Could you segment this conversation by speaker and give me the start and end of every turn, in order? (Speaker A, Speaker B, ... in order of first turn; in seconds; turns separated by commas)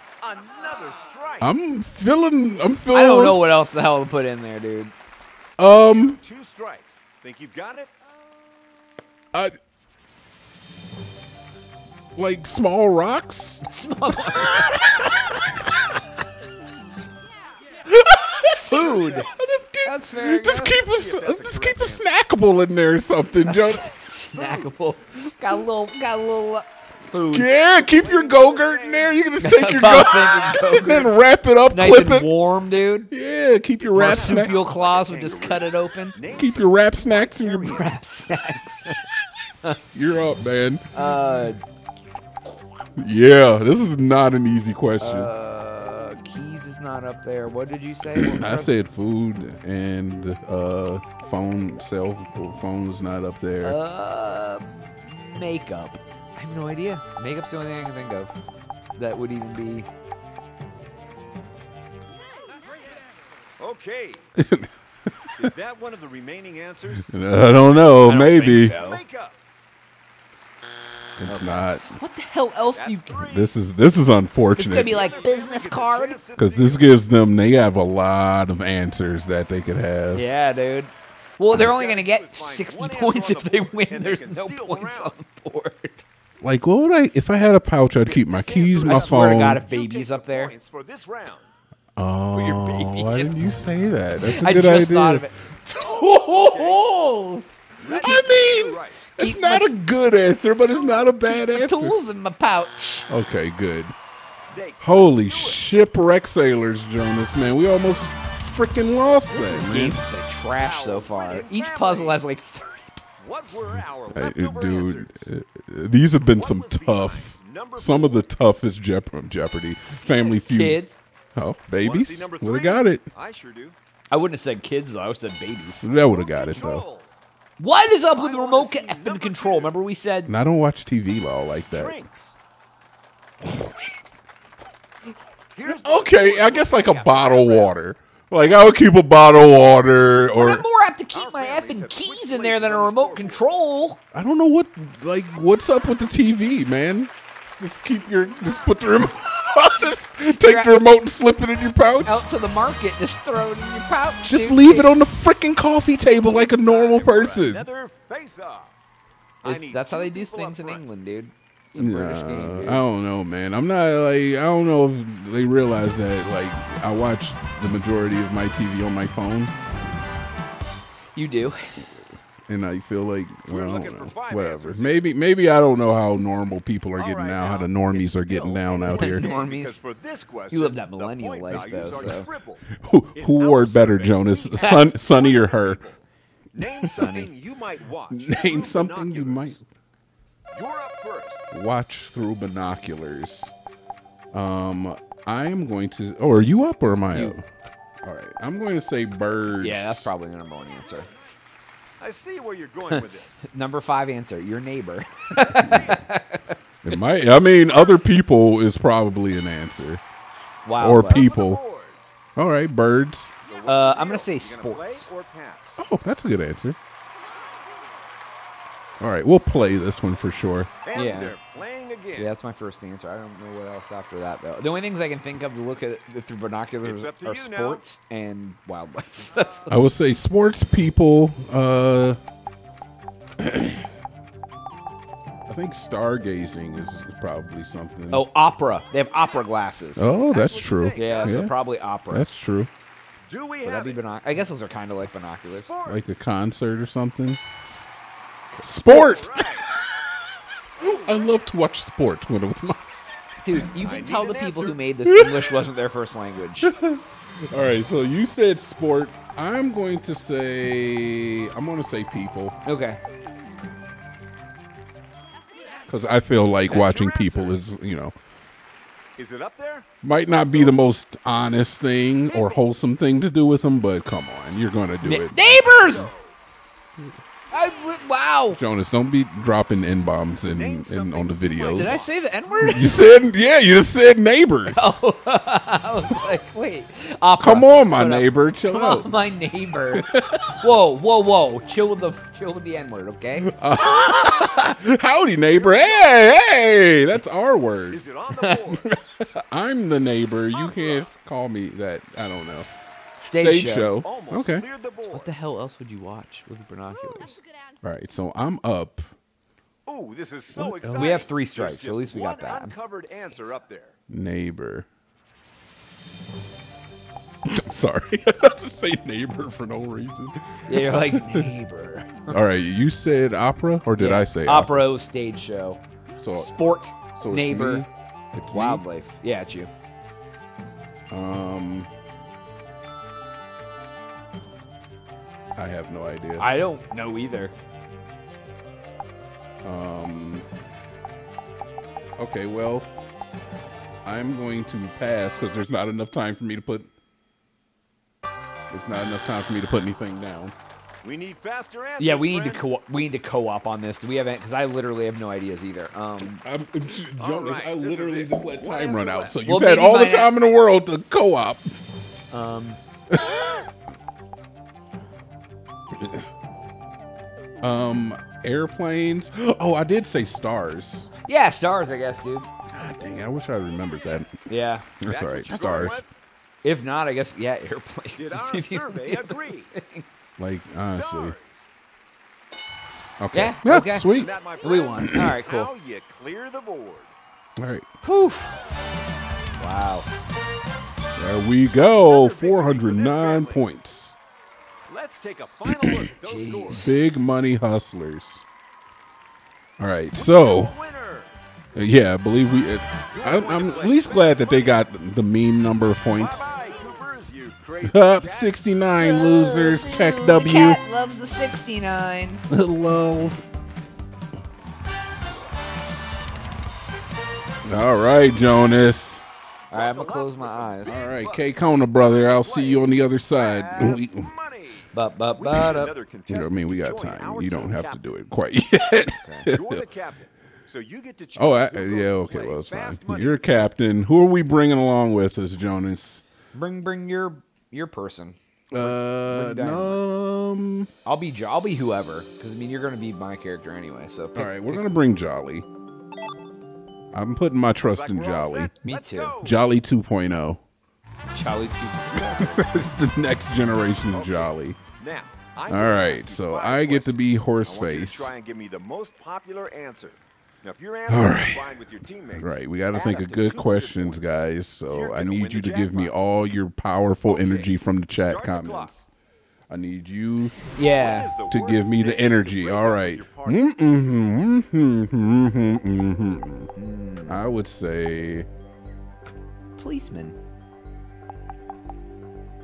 Speaker A: 0.2-1.5, Speaker B: 1.4-3.5, Speaker C: 2.9-4.9, Speaker B: 5.6-6.2, Speaker A: 5.9-7.9, Speaker B: 12.1-13.6, Speaker C: 13.6-15.0, Speaker B: 14.3-15.6, Speaker B: 17.8-23.9, Speaker C: 18.4-19.3, Speaker C: 19.8-20.9, Speaker A: 20.7-22.1, Speaker C: 23.4-27.5, Speaker A: 24.3-24.7, Speaker B: 27.3-32.3, Speaker A: 27.9-29.2, Speaker C: 29.4-31.1, Speaker A: 30.1-30.9, Speaker C: 31.7-33.1, Speaker B: 33.1-34.5, Speaker A: 33.8-38.0, Speaker C: 33.9-36.2, Speaker B: 36.3-37.8, Speaker C: 37.6-39.0, Speaker B: 39.9-40.9, Speaker C: 40.9-41.6, Speaker B: 43.0-45.3, Speaker C: 45.0-48.7, Speaker B: 48.1-53.8, Speaker C: 53.6-58.3, Speaker C: 59.0-59.9, Speaker A: 63.6-64.2, Speaker B: 64.3-65.5, Speaker A: 65.4-67.1, Speaker B: 67.0-68.7, Speaker C: 68.0-69.0, Speaker A: 68.7-69.3, Speaker B: 71.2-71.9, Speaker C: 71.3-73.2, Speaker A: 72.7-73.5, Speaker B: 73.2-75.1, Speaker C: 74.6-76.2, Speaker A: 74.8-76.9, Speaker B: 76.4-80.2, Speaker C: 80.1-86.0, Speaker A: 81.5-85.1, Speaker B: 86.4-89.6, Speaker A: 88.0-91.5, Speaker C: 88.9-90.5, Speaker B: 92.0-102.0, Speaker C: 92.3-93.3, Speaker C: 94.2-95.3, Speaker A: 97.8-99.1, Speaker C: 97.9-98.3, Speaker C: 99.2-99.8, Speaker C: 100.8-103.1, Speaker B: 103.1-103.9, Speaker A: 104.5-105.6, Speaker B: 104.8-110.0, Speaker C: 109.3-113.0, Speaker A: 110.5-112.2, Speaker A: 113.2-115.3, Speaker B: 114.1-120.8, Speaker A: 116.3-118.2, Speaker C: 120.0-120.9, Speaker B: 121.3-123.0, Speaker A: 121.8-123.7, Speaker C: 124.1-125.8, Speaker B: 125.8-126.8, Speaker A: 126.1-127.1, Speaker C: 127.6-130.3, Speaker A: 128.1-129.8, Speaker B: 130.3-131.9, Speaker A: 131.7-132.3, Speaker B: 133.4-133.8, Speaker A: 135.5-137.7, Speaker B: 135.6-140.6, Speaker C: 140.3-144.0, Speaker A: 141.1-143.4, Speaker B: 144.1-152.2, Speaker C: 150.3-150.8, Speaker C: 152.1-154.9, Speaker B: 154.2-157.6, Speaker A: 156.2-158.8, Speaker A: 159.4-160.8, Speaker C: 159.4-162.8, Speaker B: 161.7-169.5, Speaker C: 171.1-171.8, Speaker B: 172.5-179.3, Speaker A: 173.5-175.1, Speaker A: 176.9-186.0, Speaker C: 178.8-179.8, Speaker C: 180.5-182.3, Speaker B: 182.7-185.8, Speaker A: 186.5-189.6, Speaker C: 186.9-187.3, Speaker B: 188.1-189.7, Speaker A: 190.5-191.5, Speaker B: 191.5-193.5, Speaker B: 194.3-197.4, Speaker B: 198.0-200.1, Speaker C: 199.6-201.1, Speaker A: 202.0-203.4, Speaker C: 202.9-206.6, Speaker A: 205.4-206.1, Speaker B: 206.8-210.0, Speaker A: 207.7-208.3, Speaker C: 210.6-211.2, Speaker B: 210.8-211.6, Speaker A: 211.0-212.0, Speaker B: 212.3-213.3, Speaker A: 213.4-215.8, Speaker C: 213.7-215.1, Speaker B: 215.8-216.8, Speaker B: 219.0-220.7, Speaker A: 220.8-222.3, Speaker C: 220.9-221.3, Speaker C: 222.2-229.8, Speaker A: 226.8-227.8, Speaker B: 229.7-232.2, Speaker B: 233.4-233.8, Speaker B: 235.5-238.2, Speaker C: 238.1-240.1, Speaker B: 240.0-241.5, Speaker A: 240.2-241.5, Speaker C: 240.9-242.3, Speaker B: 242.1-242.7, Speaker A: 243.3-244.1, Speaker C: 243.6-245.7, Speaker A: 245.4-246.2, Speaker B: 245.8-247.4, Speaker C: 248.5-249.2, Speaker B: 248.6-250.1, Speaker A: 248.8-249.8, Speaker B: 250.8-252.9, Speaker A: 250.9-251.2, Speaker C: 253.4-256.7, Speaker A: 253.8-254.9, Speaker B: 255.1-255.6, Speaker B: 256.6-262.6, Speaker C: 262.6-263.0, Speaker B: 265.9-268.1, Speaker A: 266.7-267.6, Speaker A: 269.2-270.8, Speaker B: 270.0-275.4, Speaker A: 272.3-272.6, Speaker C: 275.0-276.1, Speaker A: 275.4-276.4, Speaker C: 277.5-278.6, Speaker B: 278.5-282.0, Speaker A: 280.4-282.5, Speaker C: 281.6-283.0, Speaker B: 282.6-285.0, Speaker C: 284.7-293.5, Speaker B: 287.4-289.1, Speaker B: 289.9-290.5, Speaker B: 293.4-298.0, Speaker A: 295.5-296.2, Speaker A: 297.9-298.9, Speaker B: 298.9-302.7, Speaker A: 300.5-301.1, Speaker C: 303.2-304.0, Speaker B: 303.4-304.6, Speaker A: 304.0-305.3, Speaker C: 305.0-307.4, Speaker B: 307.8-309.1, Speaker A: 309.9-313.9, Speaker B: 310.5-311.2, Speaker C: 310.9-313.5, Speaker B: 314.1-314.9, Speaker B: 317.4-321.5, Speaker C: 320.7-322.4, Speaker B: 322.3-324.9, Speaker C: 324.0-325.8, Speaker B: 326.1-326.6, Speaker C: 326.3-327.9, Speaker B: 327.1-328.8, Speaker C: 328.5-329.7, Speaker B: 331.1-331.9, Speaker B: 335.6-336.5, Speaker C: 336.4-337.5, Speaker B: 339.6-340.4, Speaker B: 342.2-342.9, Speaker B: 344.0-346.9, Speaker B: 348.7-350.5, Speaker A: 351.0-352.6, Speaker C: 352.0-356.4, Speaker B: 356.2-361.7, Speaker A: 357.2-359.4, Speaker C: 359.4-360.3, Speaker C: 362.3-362.8, Speaker B: 363.1-363.6, Speaker B: 365.9-366.3, Speaker B: 367.6-371.1, Speaker C: 371.3-372.5, Speaker B: 372.7-374.4, Speaker C: 374.5-374.9, Speaker B: 375.0-376.0, Speaker A: 375.1-376.1, Speaker C: 375.5-375.8, Speaker C: 376.6-380.0, Speaker A: 378.2-379.7, Speaker B: 380.4-381.4, Speaker A: 380.8-381.7, Speaker B: 383.2-384.3, Speaker C: 383.3-385.7, Speaker A: 384.1-387.1, Speaker B: 385.0-385.3, Speaker B: 387.6-387.9, Speaker C: 388.0-388.6, Speaker C: 389.6-390.1, Speaker B: 391.1-394.1, Speaker A: 391.9-393.6, Speaker A: 394.9-396.9, Speaker B: 395.7-396.0, Speaker C: 396.2-396.9, Speaker B: 396.7-398.4, Speaker B: 399.8-400.7, Speaker A: 400.1-401.3, Speaker B: 401.7-406.6, Speaker A: 403.1-404.8, Speaker A: 406.1-408.8, Speaker B: 407.8-410.8, Speaker C: 409.0-412.4, Speaker B: 412.5-413.4, Speaker B: 417.6-419.2, Speaker C: 419.7-421.0, Speaker A: 419.7-428.0, Speaker B: 420.9-424.3, Speaker C: 424.9-425.9, Speaker B: 426.3-429.8, Speaker C: 429.2-429.5, Speaker A: 429.5-433.6, Speaker B: 431.4-436.2, Speaker C: 436.5-440.0, Speaker B: 438.7-440.9, Speaker C: 441.0-444.8, Speaker B: 444.3-445.6, Speaker B: 447.1-448.7, Speaker A: 447.9-449.6, Speaker C: 448.8-449.4, Speaker B: 449.4-450.6, Speaker C: 451.3-452.7, Speaker B: 452.1-454.8, Speaker A: 454.1-466.1, Speaker B: 455.7-458.3, Speaker B: 461.1-461.7, Speaker B: 462.3-469.1, Speaker A: 467.2-468.9, Speaker B: 469.7-470.5, Speaker C: 470.7-471.3, Speaker A: 470.9-473.7, Speaker B: 471.5-476.7, Speaker C: 476.8-477.4, Speaker B: 477.3-478.5, Speaker C: 479.8-480.4